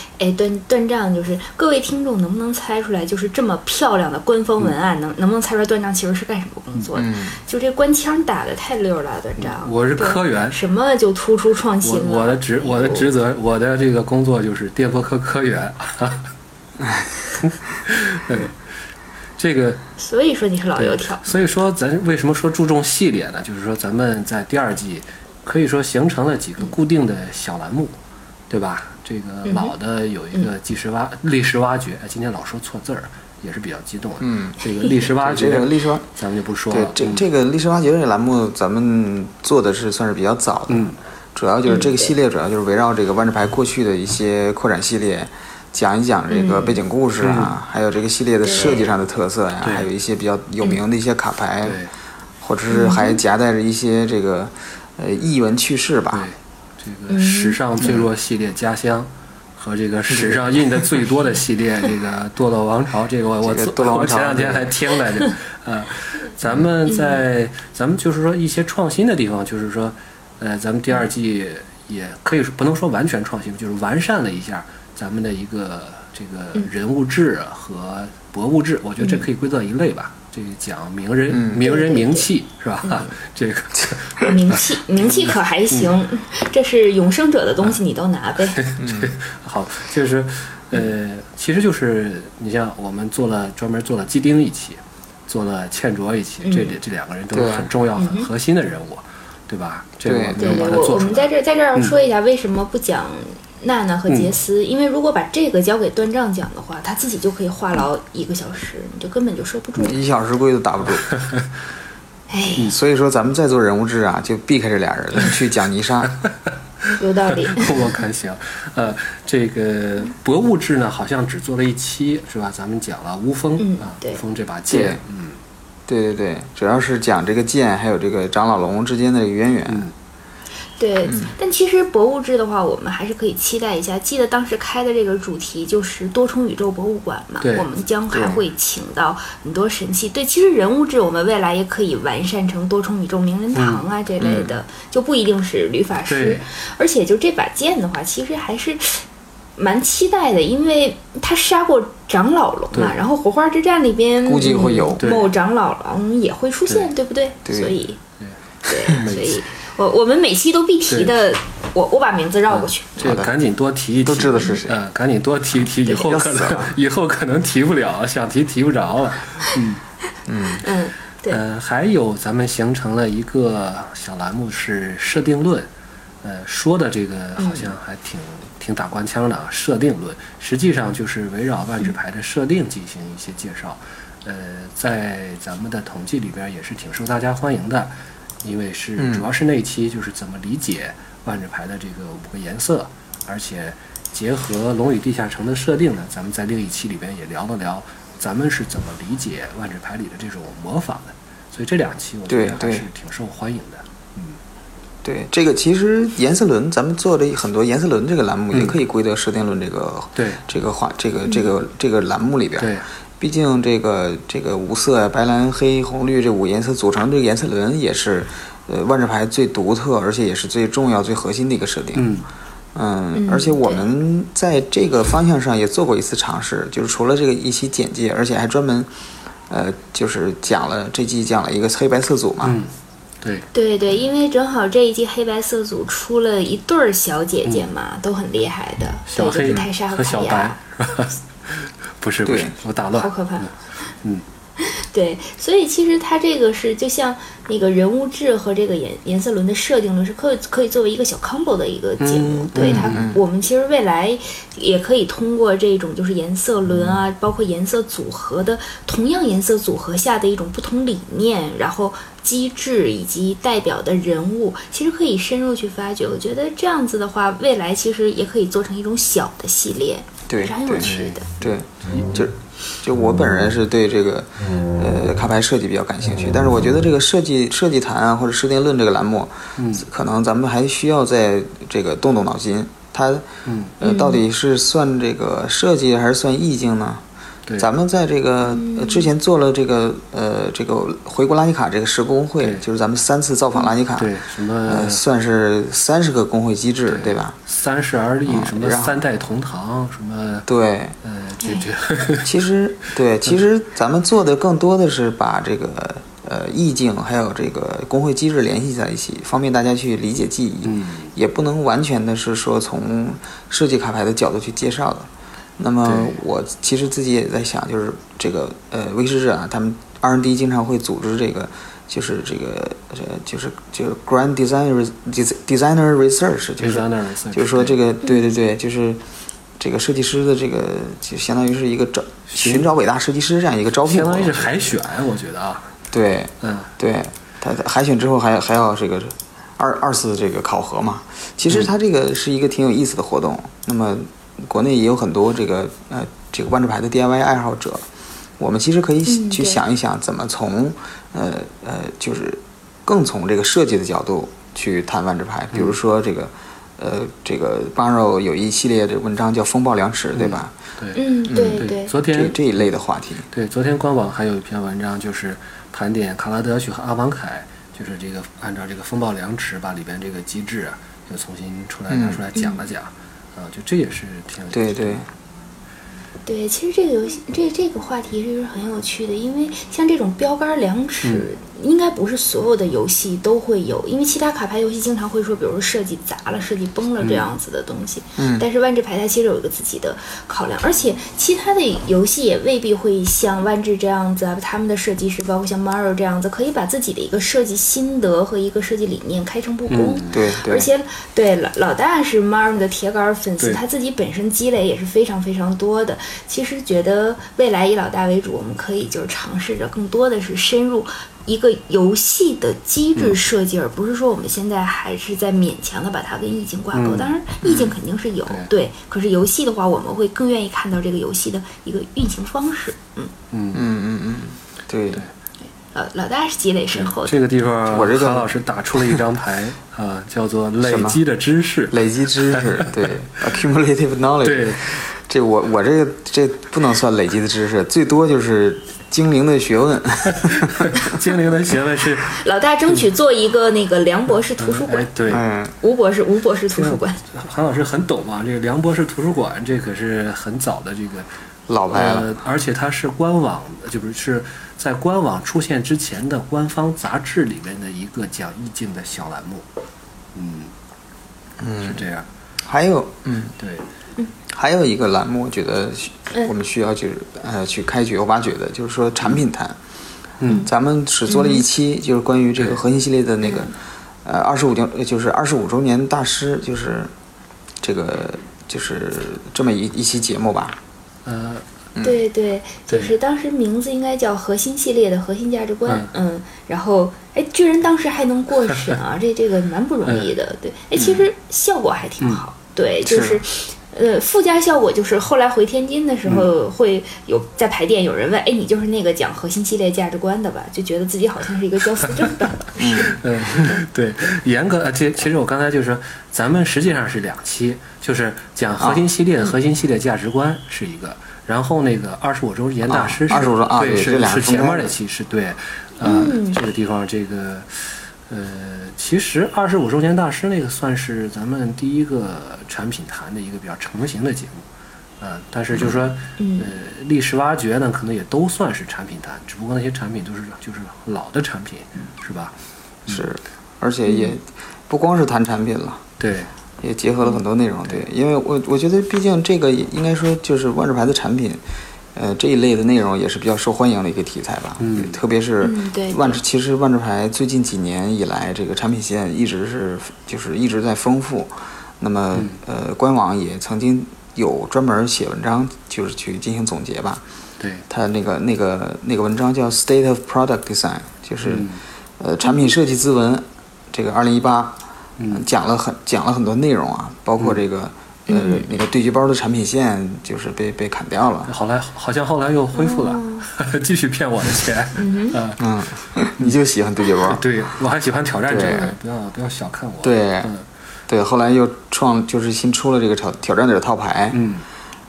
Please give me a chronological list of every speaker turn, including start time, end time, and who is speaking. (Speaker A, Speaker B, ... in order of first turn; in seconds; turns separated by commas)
Speaker A: 0.2-13.1, Speaker B: 6.9-7.4, Speaker C: 9.4-10.6, Speaker C: 11.8-16.3, Speaker B: 16.8-17.1, Speaker C: 17.4-18.5, Speaker C: 19.4-19.8, Speaker A: 20.0-21.3, Speaker C: 20.8-27.9, Speaker C: 28.5-37.3, Speaker A: 29.4-29.7, Speaker B: 34.2-34.5, Speaker B: 35.2-36.1, Speaker B: 36.7-51.8, Speaker C: 40.7-41.0, Speaker A: 41.6-42.1, Speaker A: 46.3-46.8, Speaker C: 47.2-47.5, Speaker A: 48.4-48.9, Speaker C: 51.6-51.9, Speaker B: 52.4-56.3, Speaker A: 52.7-53.2, Speaker C: 56.1-85.9, Speaker A: 57.1-57.6, Speaker B: 57.8-58.1, Speaker B: 60.1-60.4, Speaker B: 63.4-64.8, Speaker A: 66.9-67.2, Speaker A: 79.0-79.2, Speaker B: 81.3-81.6, Speaker A: 81.5-82.3, Speaker A: 84.2-88.6, Speaker C: 88.5-101.9, Speaker B: 88.8-89.2, Speaker A: 96.4-96.8, Speaker B: 97.3-97.7, Speaker A: 98.0-98.3, Speaker B: 100.0-100.7, Speaker A: 100.4-110.0, Speaker B: 109.8-111.0, Speaker A: 112.3-112.7, Speaker B: 112.6-116.1, Speaker A: 116.9-117.9, Speaker C: 117.5-125.4, Speaker A: 123.6-124.2, Speaker B: 124.7-125.0, Speaker B: 125.9-129.9, Speaker A: 130.8-149.0, Speaker B: 131.1-131.3, Speaker C: 137.4-137.7, Speaker B: 138.1-138.4, Speaker C: 143.5-143.8, Speaker B: 144.2-144.5, Speaker C: 146.1-146.4, Speaker A: 149.6-158.0, Speaker B: 154.2-155.0, Speaker C: 155.0-155.3, Speaker B: 157.4-157.7, Speaker A: 158.7-162.9, Speaker C: 158.9-159.4, Speaker C: 162.6-169.8, Speaker B: 163.0-163.3, Speaker B: 164.0-164.8, Speaker A: 165.8-166.1, Speaker B: 166.1-166.7, Speaker B: 170.3-170.6, Speaker A: 170.6-171.4, Speaker C: 171.3-175.7, Speaker C: 176.2-204.4, Speaker A: 177.4-177.7, Speaker B: 189.0-189.3, Speaker B: 202.3-202.9, Speaker B: 205.0-222.1, Speaker C: 208.5-208.8, Speaker C: 210.2-210.4, Speaker C: 212.6-212.8, Speaker C: 221.9-222.3, Speaker B: 222.7-228.9, Speaker A: 223.1-223.9, Speaker B: 229.5-232.6, Speaker C: 232.4-232.7, Speaker C: 233.2-233.5, Speaker A: 233.5-240.6, Speaker C: 239.1-243.5, Speaker B: 242.2-242.5, Speaker A: 243.0-243.5, Speaker A: 244.6-271.3, Speaker C: 252.0-253.1, Speaker B: 252.8-253.2, Speaker B: 270.3-283.2, Speaker C: 270.8-271.2, Speaker C: 279.6-279.9, Speaker C: 283.4-283.8, Speaker B: 283.8-287.0, Speaker A: 283.8-284.2, Speaker B: 287.6-294.1, Speaker A: 288.5-289.1, Speaker C: 293.9-295.0, Speaker B: 294.6-297.4, Speaker C: 296.9-300.5, Speaker B: 298.2-299.0, Speaker B: 300.5-300.9, Speaker C: 301.0-302.3, Speaker B: 302.2-329.0, Speaker C: 310.6-311.1, Speaker C: 315.8-316.2, Speaker C: 326.6-327.8, Speaker B: 329.6-334.7, Speaker C: 332.3-332.7, Speaker C: 333.8-335.7, Speaker B: 335.9-347.9, Speaker C: 336.4-336.7, Speaker B: 348.4-360.5, Speaker A: 349.1-349.6, Speaker C: 360.1-362.4, Speaker A: 360.9-361.9, Speaker B: 361.3-363.3, Speaker C: 363.3-375.0, Speaker B: 371.9-372.2, Speaker A: 372.3-372.6, Speaker B: 374.5-375.1, Speaker A: 376.2-423.1, Speaker C: 387.0-387.3, Speaker B: 388.2-388.4, Speaker C: 399.7-400.2, Speaker B: 400.1-400.7, Speaker C: 416.7-417.7, Speaker C: 423.3-423.7, Speaker B: 423.5-425.0, Speaker A: 425.7-427.1, Speaker C: 426.7-432.9, Speaker B: 427.7-429.0, Speaker B: 430.6-431.0, Speaker B: 431.7-440.9, Speaker C: 434.2-434.8, Speaker C: 440.1-442.1, Speaker A: 442.1-444.9, Speaker C: 444.4-445.2, Speaker B: 445.1-445.5, Speaker A: 445.6-447.0, Speaker C: 446.5-451.1, Speaker B: 451.5-452.1, Speaker C: 451.7-459.4, Speaker C: 460.1-460.5, Speaker B: 461.4-461.8, Speaker C: 461.6-462.1, Speaker B: 462.4-463.3, Speaker C: 463.4-463.6, Speaker B: 464.3-469.6, Speaker C: 470.2-470.5, Speaker B: 470.3-476.9, Speaker A: 471.1-471.4, Speaker A: 473.2-473.5, Speaker B: 477.6-480.6, Speaker C: 481.0-481.4, Speaker A: 481.8-503.6, Speaker B: 492.8-493.2, Speaker B: 502.6-503.0, Speaker C: 502.9-524.4, Speaker B: 508.6-508.8, Speaker B: 512.7-514.7, Speaker A: 515.8-516.4, Speaker C: 525.0-533.0, Speaker A: 526.2-526.5, Speaker B: 532.9-535.8, Speaker A: 533.8-534.1, Speaker C: 536.0-536.3, Speaker B: 536.6-541.4, Speaker B: 541.9-557.0, Speaker C: 544.6-545.0, Speaker A: 545.4-546.2, Speaker C: 552.1-552.4, Speaker C: 557.4-557.6, Speaker B: 557.7-571.3, Speaker C: 561.2-561.6, Speaker C: 565.0-565.3, Speaker A: 568.1-568.5, Speaker C: 571.3-575.4, Speaker A: 572.5-573.2, Speaker A: 574.7-575.2, Speaker B: 575.4-577.2, Speaker C: 577.0-580.4, Speaker B: 578.3-578.6, Speaker A: 578.5-578.7, Speaker B: 579.8-580.3, Speaker B: 580.9-584.2, Speaker C: 584.1-584.4